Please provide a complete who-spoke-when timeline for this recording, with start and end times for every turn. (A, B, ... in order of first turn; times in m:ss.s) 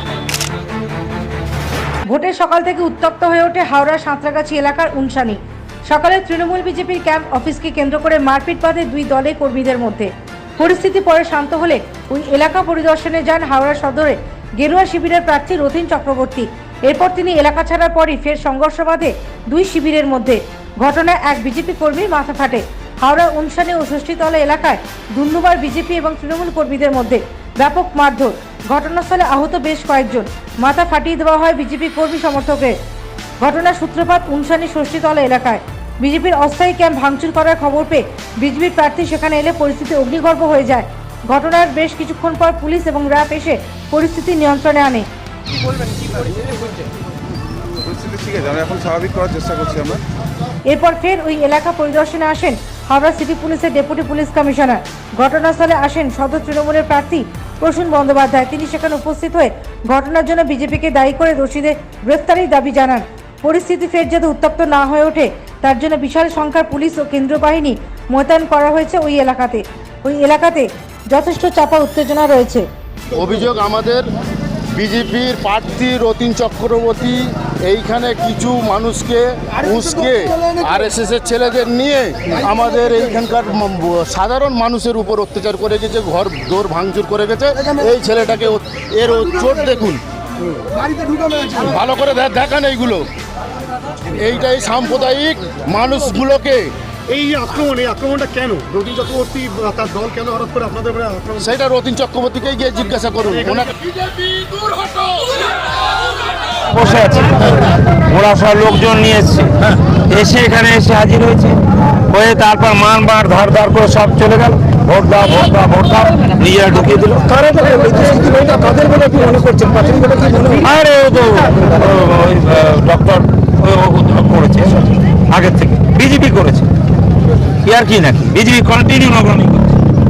0:02.1-0:32.8 A
0:33.4-0:45.1 A
0:47.8-0:50.0 B
0:50.7-1:12.7 A
1:13.1-1:14.1 C
1:14.7-1:30.0 C
1:30.8-1:33.1 C
1:34.0-1:36.7 C
1:37.1-1:41.4 D
1:41.4-1:45.5 C
1:46.7-2:06.7 E
2:07.6-2:09.7 E